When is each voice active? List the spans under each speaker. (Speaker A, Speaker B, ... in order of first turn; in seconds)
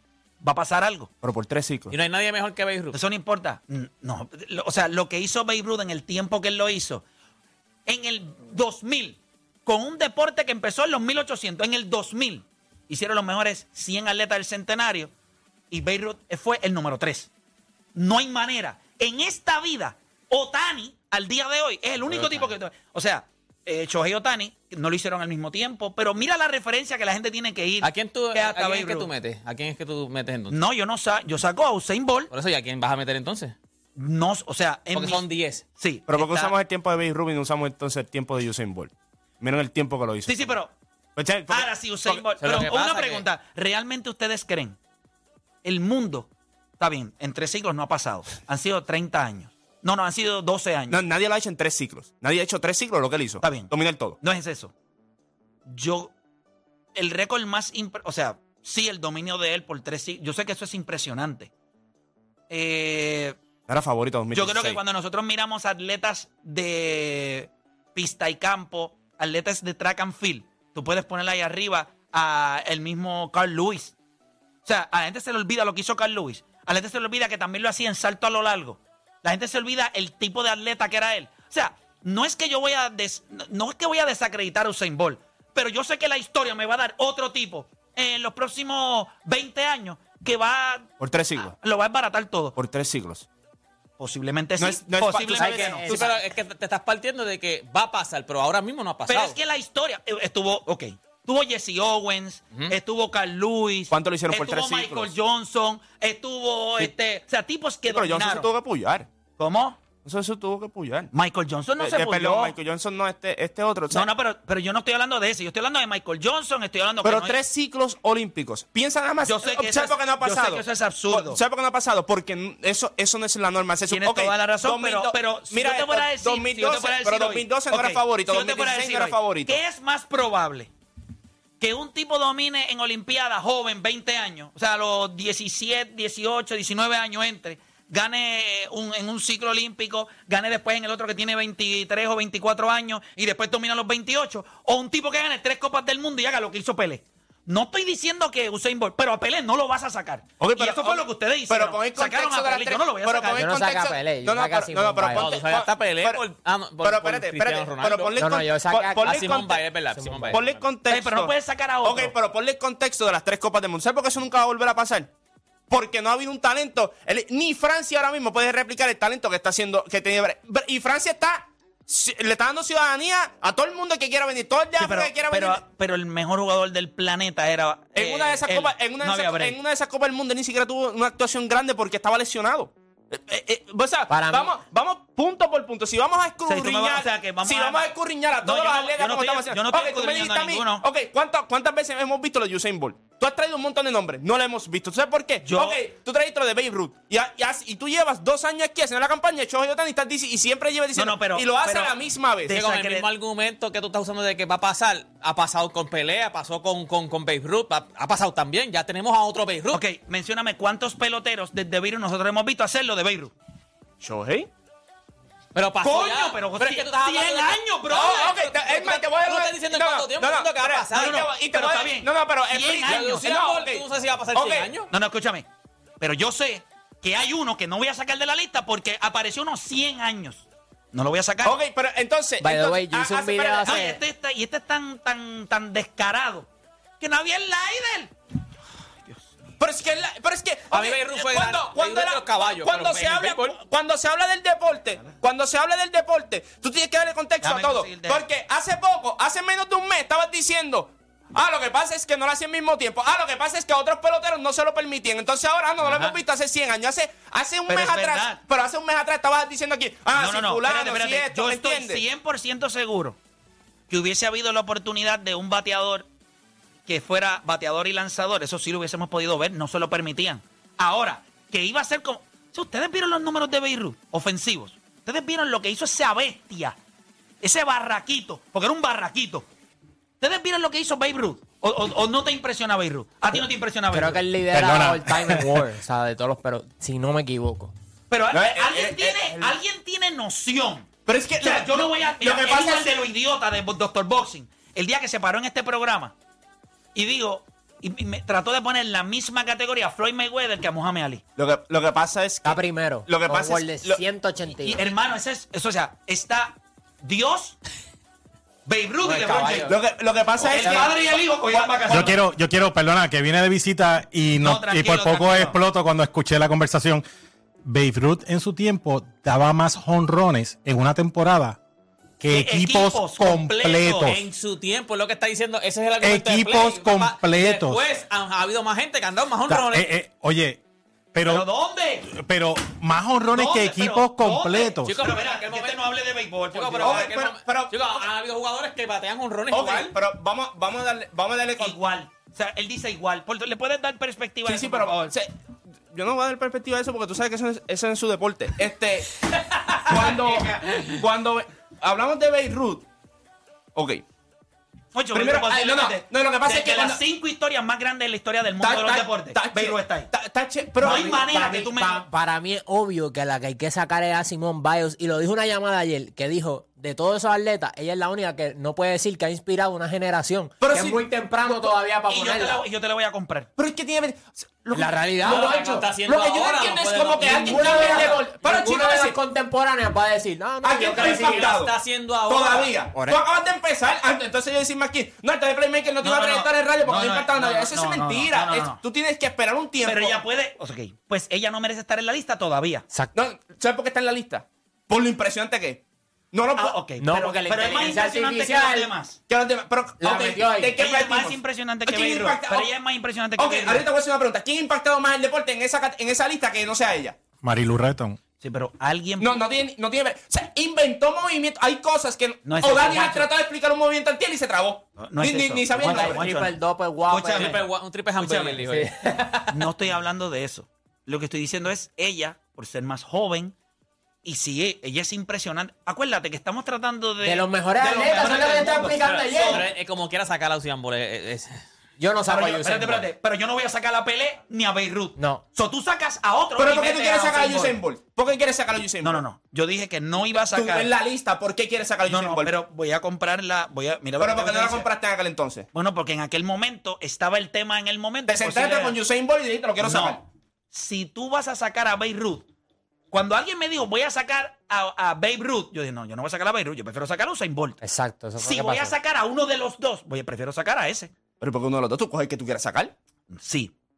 Speaker A: 0.4-1.1, 2.9-7.0, 7.8-15.1, 15.7-17.3, 17.9-29.1, 30.5-32.3, 34.0-35.2, 35.8-36.5, 40.3-40.7, 41.5-44.8, 45.6-51.0, 53.4-54.7, 55.7-56.1, 56.9-61.5, 62.5-63.4, 64.3-73.9, 74.6-92.5, 94.0-96.0, 99.1-108.5, 109.4-109.8, 111.1-112.5, 113.9-117.4, 119.2-121.4, 123.9-130.7, 131.6-153.5, 160.9-162.1, 174.8-179.6, 186.5-190.8, 195.4-195.8, 200.9-203.1, 209.7-213.3, 215.8-219.0, 220.9-223.3, 224.9-225.5, 226.0-231.6, 233.6-236.5, 237.0-238.1, 247.4-248.2, 257.7-258.4, 260.1-263.2, 263.9-266.1, 266.9-276.8, 277.4-279.4, 280.2-284.2, 288.1-290.9, 291.4-296.1, 296.9-301.2, 304.6-307.6, 308.6-309.7, 310.5-312.1, 314.4-315.6, 322.3-324.1, 331.2-332.1, 333.3-337.1, 341.6-345.1, 354.9-360.1, 360.8-362.1, 372.1-373.5, 386.0-388.8, 389.8-392.8, 396.6-399.2, 400.8-403.9, 408.4-409.4, 412.4-413.3, 415.0-416.6, 417.1-417.6, 418.2-418.6, 419.5-423.5, 424.2-429.6, 432.3-437.8, 439.0-440.9, 442.1-444.9, 445.7-449.0, 449.8-450.2, 450.7-452.4, 453.1-457.8, 458.4-461.1, 463.3-463.7
Speaker B: 1.2-1.9, 36.1-40.6, 41.1-42.2, 50.9-54.2, 63.7-64.8, 91.0-91.5, 92.5-93.3, 94.6-96.1, 103.9-105.1, 107.9-109.1, 110.0-111.1, 111.8-114.1, 117.0-129.6, 150.4-156.2, 156.8-159.7, 160.3-165.1, 165.7-175.6, 177.9-202.6, 214.0-214.5, 217.9-224.7, 231.4-233.8, 239.6-262.0, 288.3-289.5, 291.1-292.9, 301.4-304.0, 309.0-312.1, 336.8-338.0, 339.5-341.8, 344.4-345.3, 345.9-349.2, 349.7-352.8, 353.7-354.0, 355.1-357.0, 358.6-361.3, 370.6-371.0, 373.6-379.2, 380.6-390.2, 393.1-396.9, 399.3-402.7, 403.4-407.2, 409.2-416.3, 436.6-439.2, 440.5-442.5, 444.2-445.7, 448.3-450.2, 461.4-462.9
Speaker C: 1.9-3.0, 22.0-22.5, 27.8-30.6, 32.3-33.5, 34.9-35.6, 42.4-43.2, 95.4-99.4, 155.1-158.1, 159.0-160.6, 202.5-209.8, 215.5-217.6, 219.0-221.2, 222.8-224.9, 240.7-243.6, 255.8-256.2, 324.0-329.9, 334.8-335.9, 336.5-339.9, 350.6-351.0, 375.2-378.2, 380.9-382.8, 417.3-418.9, 429.0-431.6
Speaker D: 95.4-96.0, 153.4-155.3, 158.2-159.4, 159.9-160.5, 184.1-184.6, 232.4-234.0, 283.9-287.7, 302.4-304.8, 309.2-309.8, 310.4-310.8, 360.8-372.6, 374.7-376.0, 377.2-381.6, 397.0-398.9, 400.0-400.8, 415.8-417.6, 418.6-419.6, 427.2-429.7, 432.0-433.1, 435.1-435.4, 457.8-458.9
Speaker E: 284.5-285.6, 311.9-317.0, 317.6-321.6, 322.2-324.2, 326.0-327.8, 329.5-330.6, 331.1-331.4, 332.1-334.9, 407.4-408.2